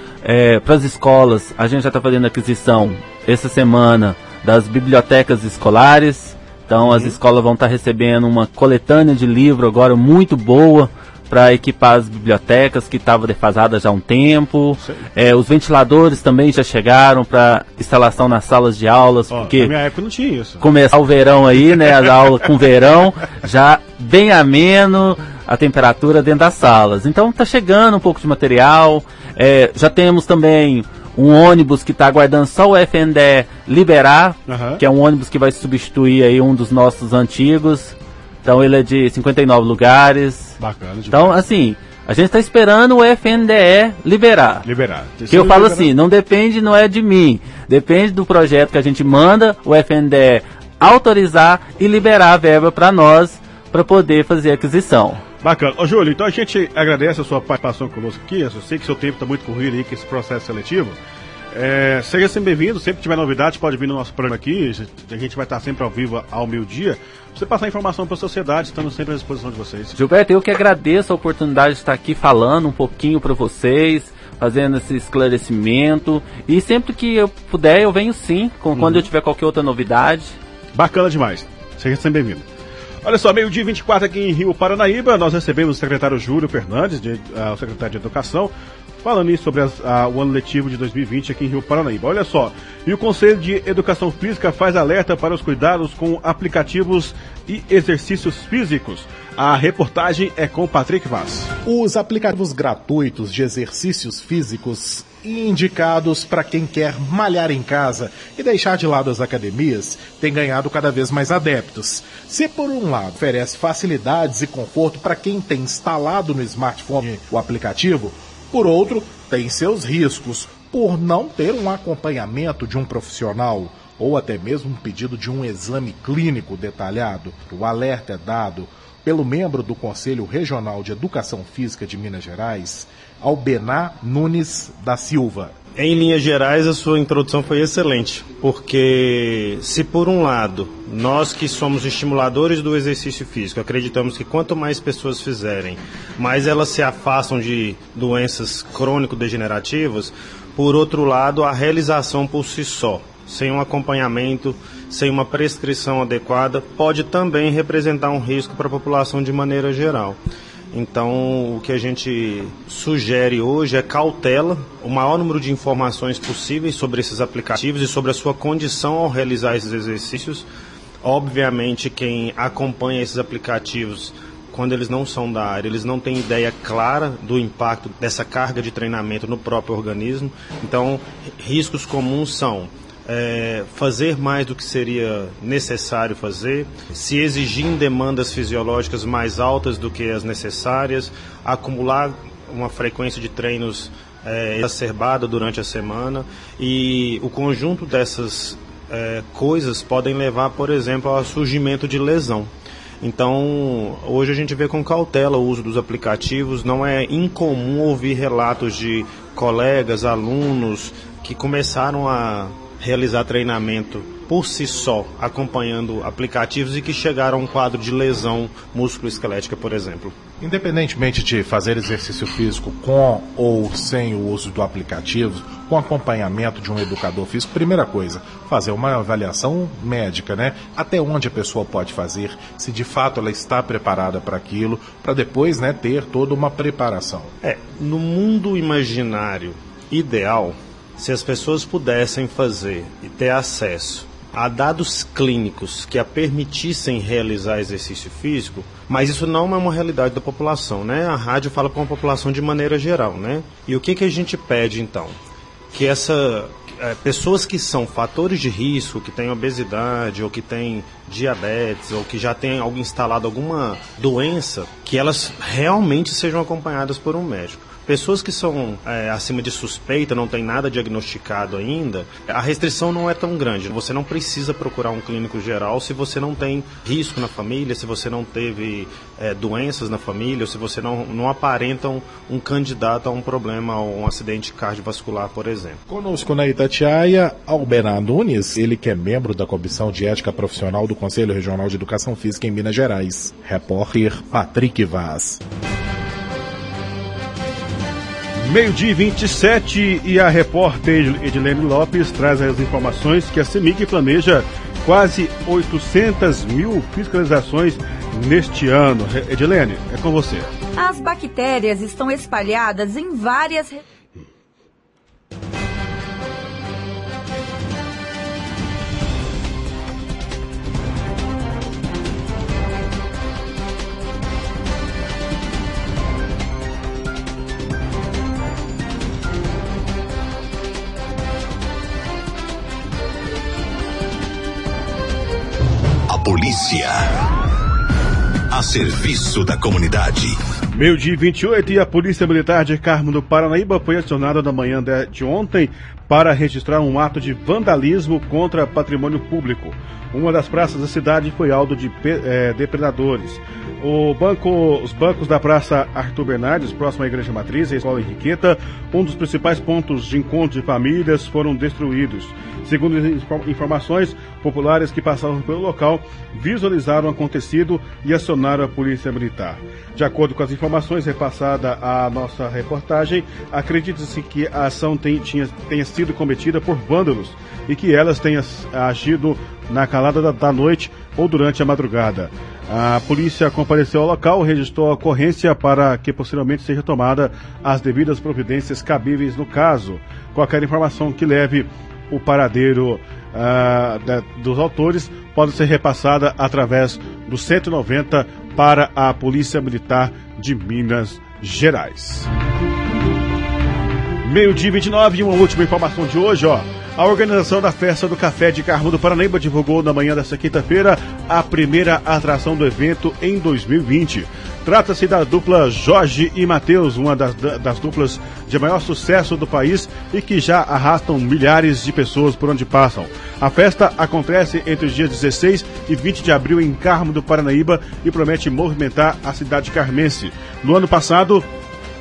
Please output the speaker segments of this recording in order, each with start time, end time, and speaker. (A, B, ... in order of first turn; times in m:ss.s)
0:00.2-0:19.7 A
0:06.8-0:07.2 B
0:14.8-0:15.1 B
0:19.3-0:20.6 B
0:20.6-0:40.6 A
0:34.5-0:34.8 B
0:40.6-0:41.4 B
0:41.1-0:44.7 A
0:44.6-0:45.9 B
0:45.3-0:55.2 A
0:55.4-1:01.0 B
1:01.5-1:10.0 B
1:10.0-1:20.4 A
1:18.8-1:19.1 B
1:20.7-1:22.4 B
1:23.0-1:28.5 B
1:29.0-1:41.5 B
1:41.6-2:15.6 C
2:15.8-2:40.2 D
2:40.7-2:50.5 D
2:51.0-3:40.2 D
3:40.4-3:57.3 C
3:57.4-4:15.2 D
4:15.7-4:45.8 D
4:45.9-4:55.4 C
4:58.4-5:10.5 B
5:10.8-5:13.8 E
5:36.1-5:37.1 F
5:38.5-5:40.4 F
5:40.7-6:42.3 B
6:44.2-7:11.5 B